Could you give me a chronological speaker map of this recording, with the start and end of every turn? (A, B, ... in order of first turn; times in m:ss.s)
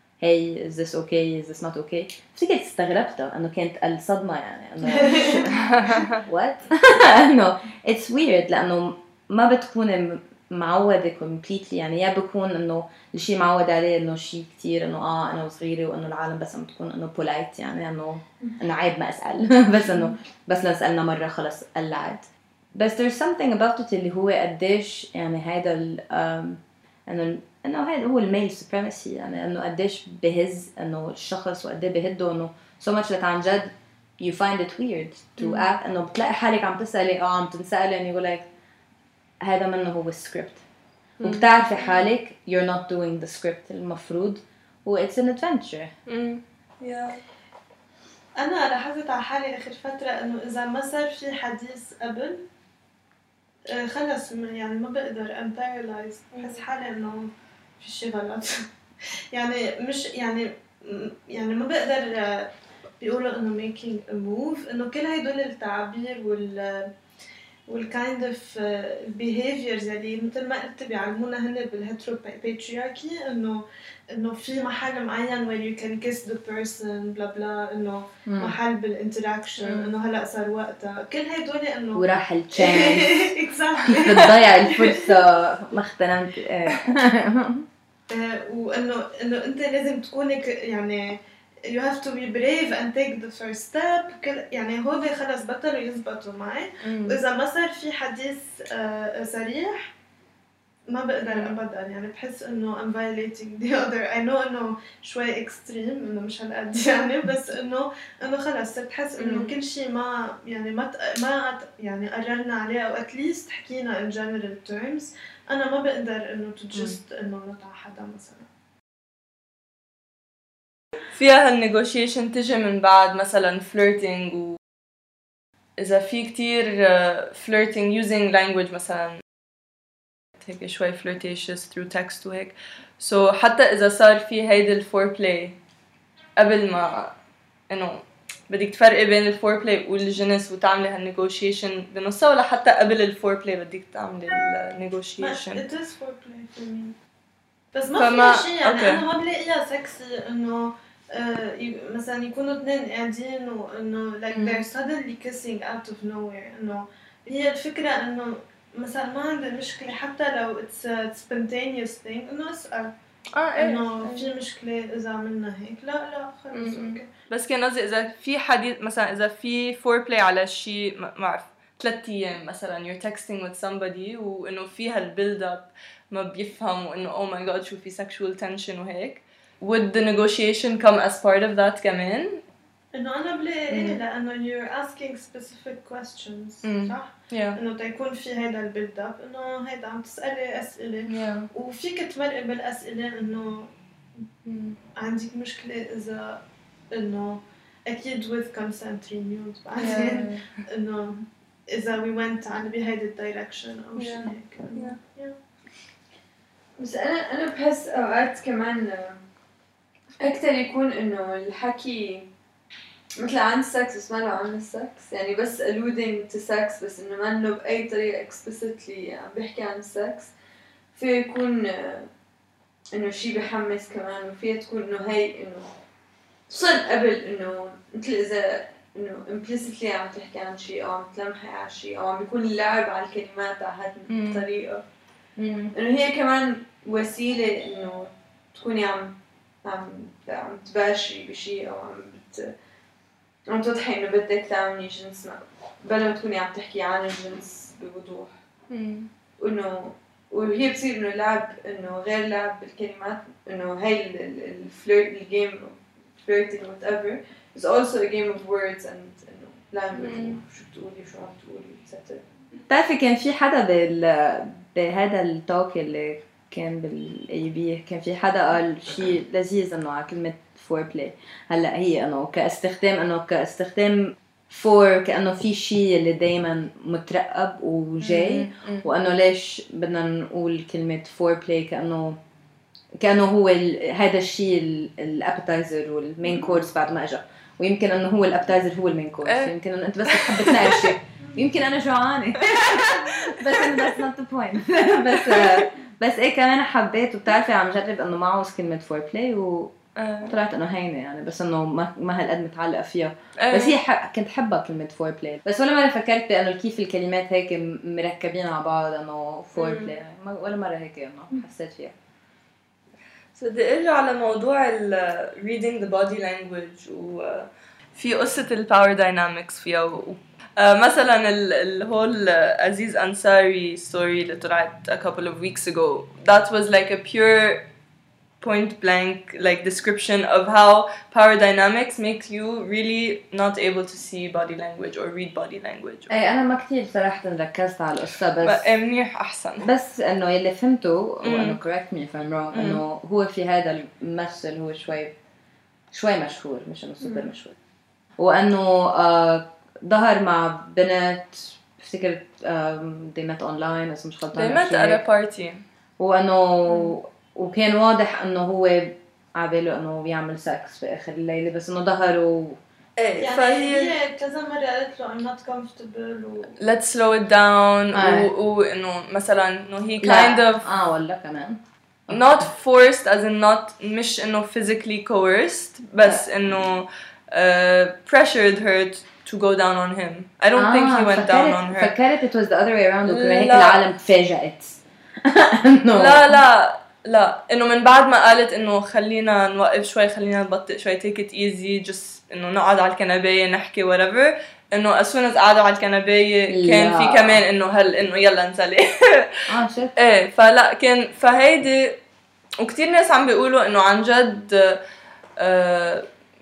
0:00.2-0:38.5 A
0:04.9-0:05.4 B
0:05.1-0:06.2 C
0:35.4-0:35.7 C
0:39.4-0:40.6 A
0:41.2-0:41.5 C
0:41.2-0:45.9 A
0:46.1-0:47.2 C
0:48.4-0:52.4 B
0:53.7-0:58.6 B
0:56.3-0:56.6 C
0:59.3-1:02.5 B
1:03.0-1:06.9 B
1:07.7-1:24.4 B
1:18.2-1:18.6 A
1:19.6-1:19.9 C
1:22.0-1:23.3 A
1:23.8-1:27.6 A
1:28.1-1:31.2 B
1:31.7-1:39.9 B
1:36.8-1:37.2 C
1:40.9-1:58.5 B
1:41.3-1:41.6 C
1:49.2-1:49.5 C
2:01.1-2:04.6 C
2:05.8-2:09.2 C
2:10.4-2:15.6 C
2:16.4-2:17.1 C
2:17.7-2:25.6 C
2:25.2-2:27.0 B
2:27.7-2:42.9 B
2:28.0-2:29.0 C
2:34.3-2:34.6 C
2:43.3-2:44.3 C
2:43.6-2:47.1 B
2:46.5-3:02.4 C
3:02.9-3:13.7 B
3:03.7-3:04.0 C
3:06.6-3:07.6 C
3:11.1-3:11.5 C
3:14.4-3:14.8 C
3:15.0-3:16.4 B
3:16.9-3:25.4 B
3:19.8-3:20.5 C
3:24.0-3:25.0 C
3:26.8-3:29.2 D
3:30.2-3:32.3 D
3:33.2-3:40.3 D
3:40.9-3:42.1 D
3:42.9-3:45.7 D
3:46.5-3:54.8 D
3:54.1-3:54.5 C
3:55.4-3:55.7 A
3:55.7-4:02.5 D
4:03.5-4:08.3 D
4:08.7-4:09.1 C
4:09.4-4:22.2 D
4:19.9-4:20.4 C
4:22.7-4:42.2 A
4:38.0-4:38.9 C
4:43.0-4:59.7 A
4:49.2-4:49.5 C
4:50.0-4:50.9 C
4:52.4-4:53.9 C
4:55.1-4:55.6 C
5:00.0-5:00.3 C
5:00.2-5:11.9 A
5:03.4-5:03.8 C
5:09.6-5:09.9 C
5:13.4-5:27.6 C
5:28.4-5:36.1 C
5:36.1-5:38.6 A
5:38.4-5:39.7 C
5:39.6-5:45.1 A
5:41.2-5:41.6 C
5:42.5-5:42.8 C
5:45.9-5:47.6 A
5:47.0-5:47.3 C
5:48.2-5:55.0 A
5:54.3-5:55.6 C
5:56.0-6:02.6 A
5:56.7-5:56.9 C
6:03.0-6:03.9 C
6:03.2-6:06.5 B
6:06.6-6:10.7 C
6:07.9-6:08.3 A
6:10.0-6:12.5 A
6:12.1-6:21.9 C
6:20.6-6:26.4 A
6:23.0-6:23.8 C
6:25.9-6:39.4 C
6:36.5-6:37.4 A
6:39.5-6:39.9 A
6:40.0-6:42.0 C
6:42.6-6:44.8 C
6:45.4-6:46.0 C